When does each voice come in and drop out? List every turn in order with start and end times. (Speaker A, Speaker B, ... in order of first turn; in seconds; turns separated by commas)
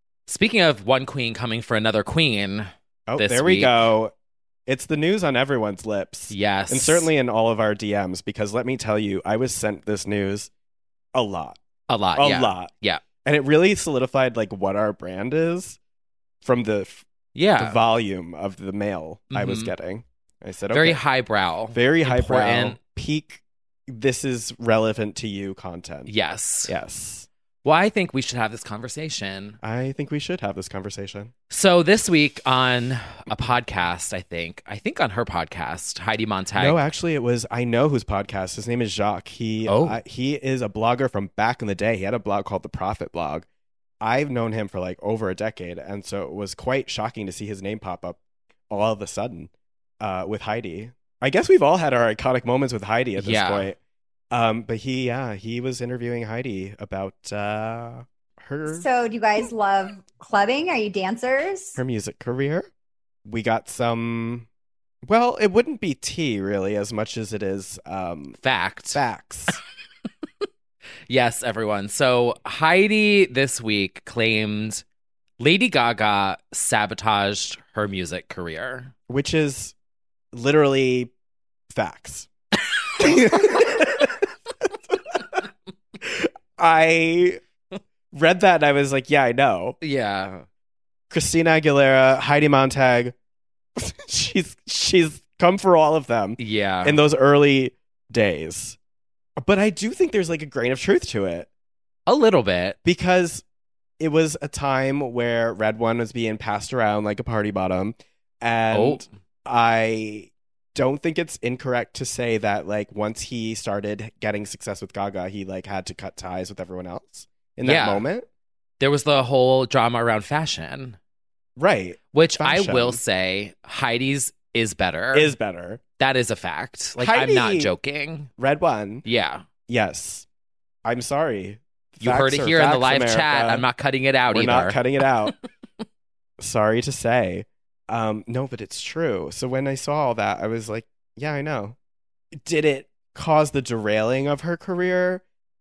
Speaker A: 0.3-3.8, Speaker B: 3.1-4.1, Speaker B: 4.7-10.5, Speaker A: 6.3-7.1, Speaker B: 11.1-11.6, Speaker A: 11.9-13.0, Speaker B: 12.2-12.7, Speaker B: 13.2-15.8, Speaker B: 16.4-17.1, Speaker A: 17.4-17.8, Speaker B: 17.6-21.0, Speaker A: 19.3-19.7, Speaker A: 20.7-22.8, Speaker B: 21.7-26.1, Speaker A: 26.1-26.7, Speaker B: 26.7-27.3, Speaker A: 27.6-29.6, Speaker B: 29.6-31.3, Speaker A: 31.5-36.8, Speaker B: 36.6-43.5, Speaker A: 39.7-40.0, Speaker B: 44.0-48.2, Speaker B: 48.7-53.8, Speaker A: 53.2-53.7, Speaker B: 54.3-58.9, Speaker C: 58.7-61.8, Speaker B: 61.8-62.7, Speaker B: 63.2-64.5, Speaker B: 65.0-68.4, Speaker A: 68.4-69.0, Speaker B: 68.9-69.6, Speaker A: 71.1-74.8, Speaker A: 75.4-78.9, Speaker B: 79.1-79.8, Speaker B: 80.3-81.1, Speaker B: 81.7-82.3, Speaker B: 83.0-85.4, Speaker B: 86.0-87.4, Speaker B: 88.1-89.8, Speaker A: 89.8-90.5, Speaker B: 91.1-93.2, Speaker B: 93.8-98.8, Speaker A: 96.4-97.0, Speaker B: 99.4-101.5, Speaker A: 102.1-102.8, Speaker B: 102.8-103.4, Speaker B: 104.0-118.3, Speaker A: 108.7-109.1, Speaker A: 117.7-118.0, Speaker A: 118.8-121.0, Speaker B: 121.6-123.0, Speaker A: 122.1-125.3, Speaker B: 125.1-125.8, Speaker A: 126.0-128.3, Speaker B: 127.0-127.7, Speaker B: 128.4-129.1, Speaker A: 129.1-129.5, Speaker B: 129.7-130.3, Speaker B: 130.8-133.7, Speaker A: 132.0-134.8, Speaker B: 134.3-135.3, Speaker B: 136.4-141.8, Speaker B: 142.3-145.2